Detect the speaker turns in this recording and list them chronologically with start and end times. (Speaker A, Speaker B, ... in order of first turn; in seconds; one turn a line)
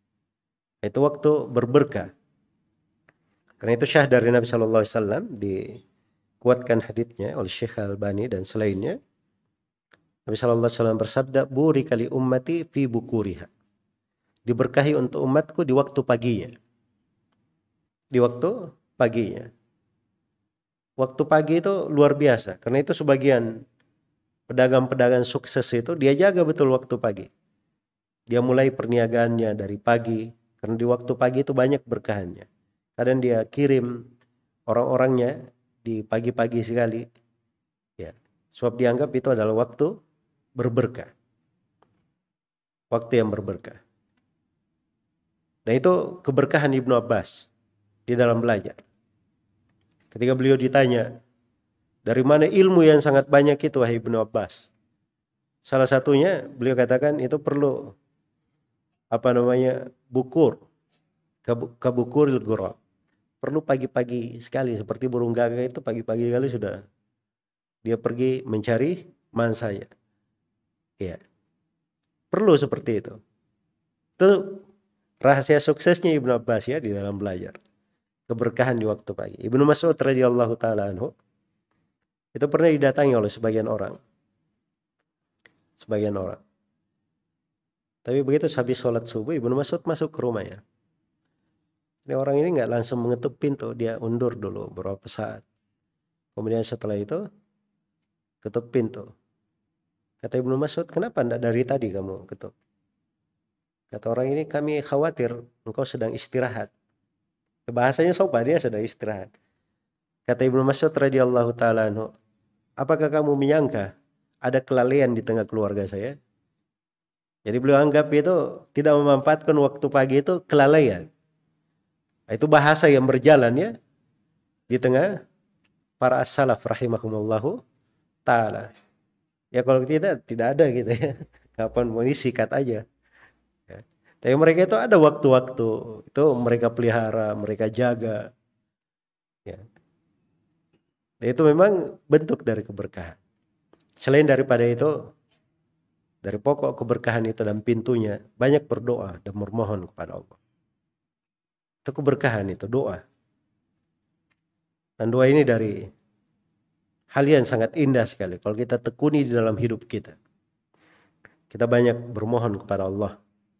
Speaker A: 0.8-2.1
Speaker A: 3.6-5.8
Speaker A: 6.4-9.0
Speaker A: 10.3-13.5
Speaker A: 14.5-16.5
Speaker A: 18.1-19.5
Speaker A: 21.0-23.5
Speaker A: 24.5-27.3
Speaker A: 28.3-33.9
Speaker A: 34.7-37.1
Speaker A: 38.0-40.0
Speaker A: 40.6-41.1
Speaker A: 42.9-43.8
Speaker A: 45.7-47.5
Speaker A: 48.1-48.8
Speaker A: 50.1-51.1
Speaker A: 52.0-54.7
Speaker A: 55.7-57.9
Speaker A: 59.1-60.6
Speaker A: 61.5-62.8
Speaker A: 63.4-66.8
Speaker A: 67.8-69.9
Speaker A: 72.3-73.2
Speaker A: 74.2-74.6
Speaker A: 75.2-77.6
Speaker A: 78.3-81.1
Speaker A: 82.3-84.0
Speaker A: 85.8-86.4
Speaker A: 88.0-90.6
Speaker A: 92.1-95.4
Speaker A: 96.4-97.2
Speaker A: 98.4-99.1
Speaker A: 100.2-102.5
Speaker A: 103.9-106.7
Speaker A: 107.7-109.3
Speaker A: 110.3-112.1
Speaker A: 112.8-113.9
Speaker A: 114.4-116.2
Speaker A: 117.5-121.1
Speaker A: 122.3-123.7
Speaker A: 124.7-125.1
Speaker A: 126.0-127.6
Speaker A: 128.3-128.7
Speaker A: 129.6-132.8
Speaker A: 133.7-138.2
Speaker A: 141.2-143.2
Speaker A: 144.0-144.9
Speaker A: 146.2-150.4
Speaker A: 151.8-153.0
Speaker A: 155.0-155.8
Speaker A: 157.1-160.2
Speaker A: 161.5-163.2